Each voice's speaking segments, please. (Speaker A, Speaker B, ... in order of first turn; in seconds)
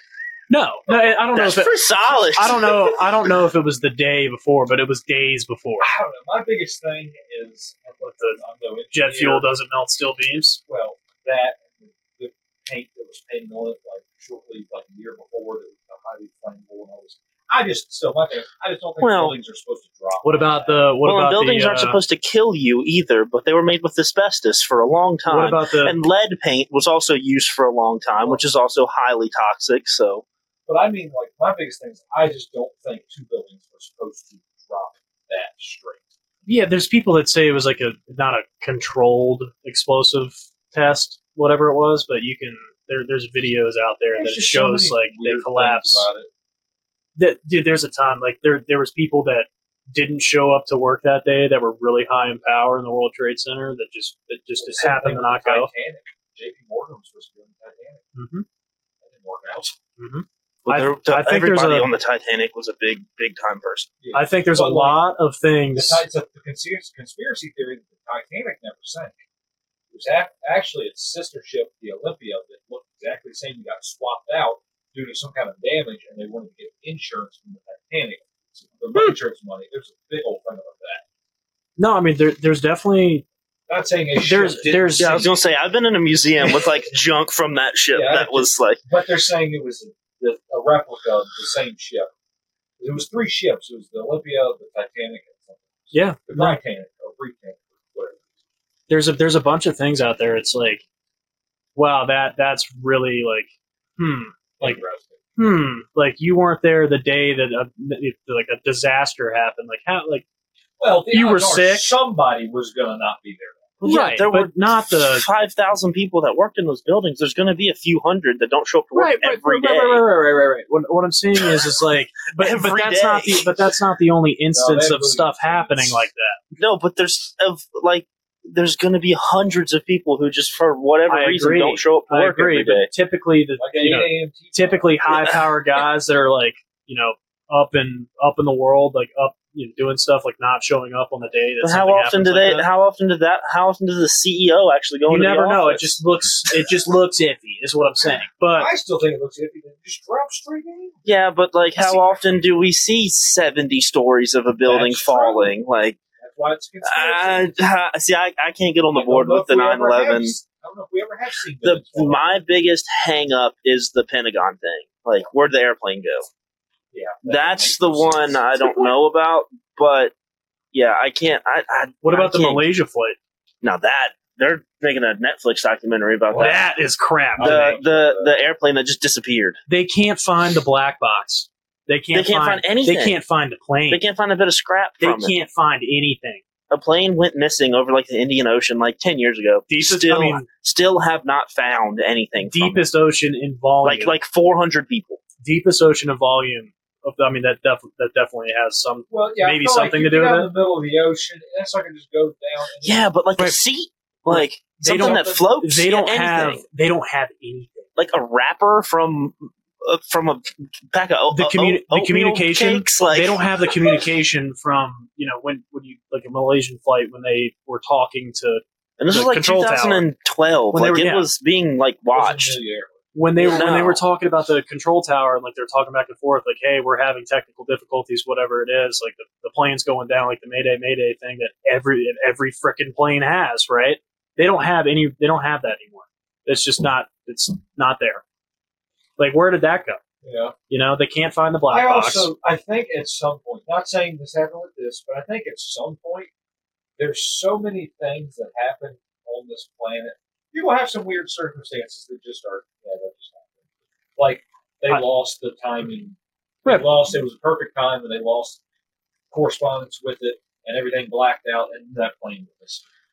Speaker A: 0.5-5.9, 8.9-10.6, 20.2-22.0, 25.2-25.9, 36.5-46.1, 47.1-55.7, 58.1-58.4, 60.0-61.9, 64.1-66.0, 81.8-83.2, 84.2-85.2, 95.9-96.6, 98.9-100.8, 101.7-104.8, 105.4-110.2, 111.1-111.9, 113.8-115.2, 118.9-126.4, 131.1-142.7, 145.1-148.7, 172.0-173.2, 176.3-177.8, 179.7-184.0, 185.0-186.4, 189.7-190.5, 192.4-194.2, 195.4-200.5, 204.3-207.9, 211.3-220.1, 220.7-221.3, 223.1-238.2, 239.2-240.0, 240.7-242.3
Speaker B: 1.3-3.0, 19.0-19.4, 21.0-30.2, 60.6-63.9, 85.0-88.8, 113.8-120.0, 122.4-123.5, 126.6-132.9, 141.6-145.9, 151.0-156.0, 156.8-160.3, 161.6-166.3, 167.2-170.1, 170.7-172.7, 173.6-176.6, 177.4-179.6, 182.1-183.2, 183.9-185.4, 186.7-192.8, 193.8-195.2, 202.8-206.6, 208.0-213.4, 219.0-222.6, 223.4-224.0
Speaker C: 5.8-9.5, 10.7-20.9, 30.7-36.1, 44.1-46.3, 54.6-58.1, 59.0-59.8, 64.0-65.1, 65.7-69.2, 69.9-81.0, 83.7-85.1, 87.9-92.1, 92.8-98.2, 104.6-105.2, 110.8-113.7, 124.5-126.0, 133.6-135.0, 148.5-151.1, 154.6-155.5, 156.2-157.5, 158.9-162.4, 166.9-168.4, 176.3-176.6, 177.3-178.3, 199.1-203.1, 204.8-205.4, 222.1-222.9, 240.2-240.5, 241.7-246.3, 247.0-253.5, 254.2-258.6, 259.3-262.8